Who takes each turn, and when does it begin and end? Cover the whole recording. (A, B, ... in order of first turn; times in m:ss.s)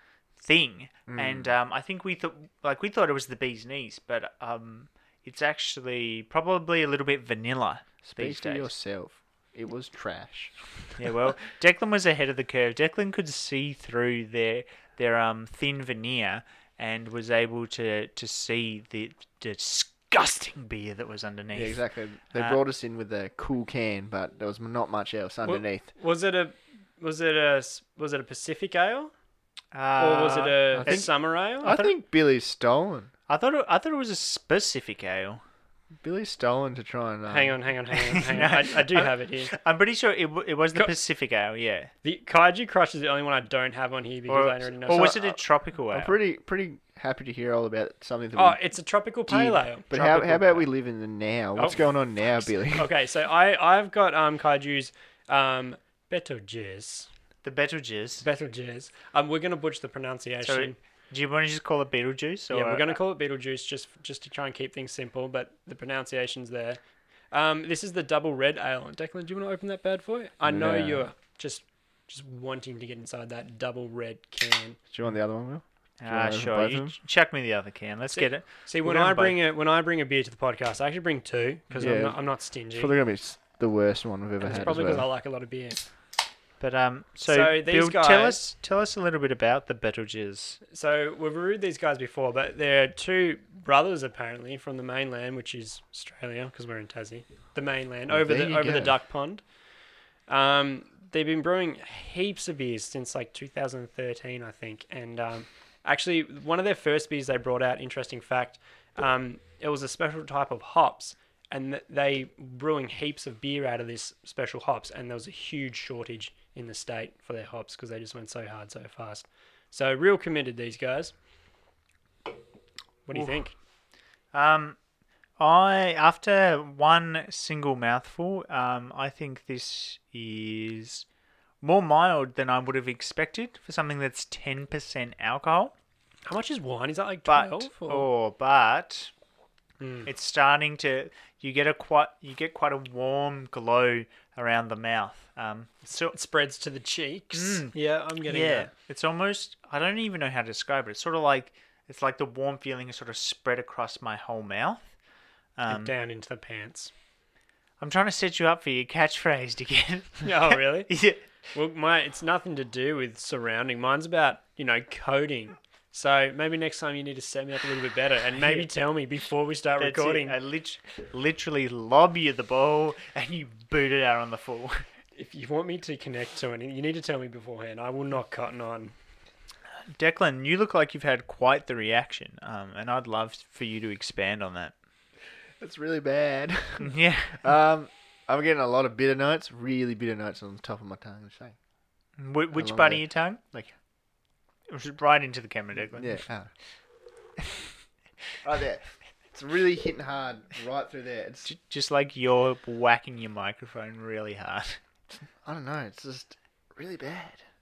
0:00.4-0:08.7 A
0:01.1-0:01.5 B
0:08.0-0:10.6 B
0:11.0-0:22.6 A
0:21.5-0:25.9 B
0:25.4-0:29.1 C
0:29.7-0:31.2 A
0:30.0-0:31.7 C
0:30.8-0:33.1 B
0:31.7-0:32.0 A
0:33.3-0:35.4 A
0:36.0-0:37.6 B
0:37.3-0:39.5 C
0:38.1-0:41.9 A
0:42.0-0:45.4 C
0:44.3-0:46.2 A
0:45.9-0:48.6 B
0:48.4-0:50.7 C
0:49.3-0:52.9 B
0:52.7-0:57.1 C
0:57.4-0:58.2 A
0:58.3-1:00.8 C
1:00.4-1:03.0 A
1:02.5-1:06.8 C
1:07.3-1:14.8 C
1:10.5-1:11.1 B
1:14.9-1:17.0 B
1:16.0-1:19.4 A
1:18.1-1:22.9 C
1:21.7-1:22.0 A
1:21.8-1:25.1 B
1:24.4-1:25.8 C
1:26.6-1:30.6 A
1:27.4-1:28.4 C
1:30.7-1:39.4 C
1:38.1-1:39.0 B
1:40.3-2:01.1 C
2:03.1-2:03.5 C
2:04.3-2:04.8 A
2:05.4-2:11.0 A
2:11.6-2:15.7 A
2:16.3-2:18.1 C
2:17.3-2:19.1 A
2:19.8-2:20.1 C
2:20.1-2:26.2 A
2:26.2-2:28.7 C
2:27.3-2:34.9 A
2:35.6-2:35.9 A
2:35.7-2:36.9 C
2:37.8-2:41.2 A
2:40.2-2:40.9 C
2:41.5-2:50.3 C
2:48.4-2:48.7 A
2:49.8-2:54.9 A
2:55.2-2:58.9 C
2:59.9-3:04.7 A
3:05.6-3:11.6 B
3:06.8-3:07.4 A
3:12.2-3:13.4 A
3:12.5-3:13.7 B
3:14.7-3:16.2 A
3:15.9-3:16.5 B
3:18.4-3:21.5 B
3:21.4-3:24.8 A
3:25.2-3:27.4 B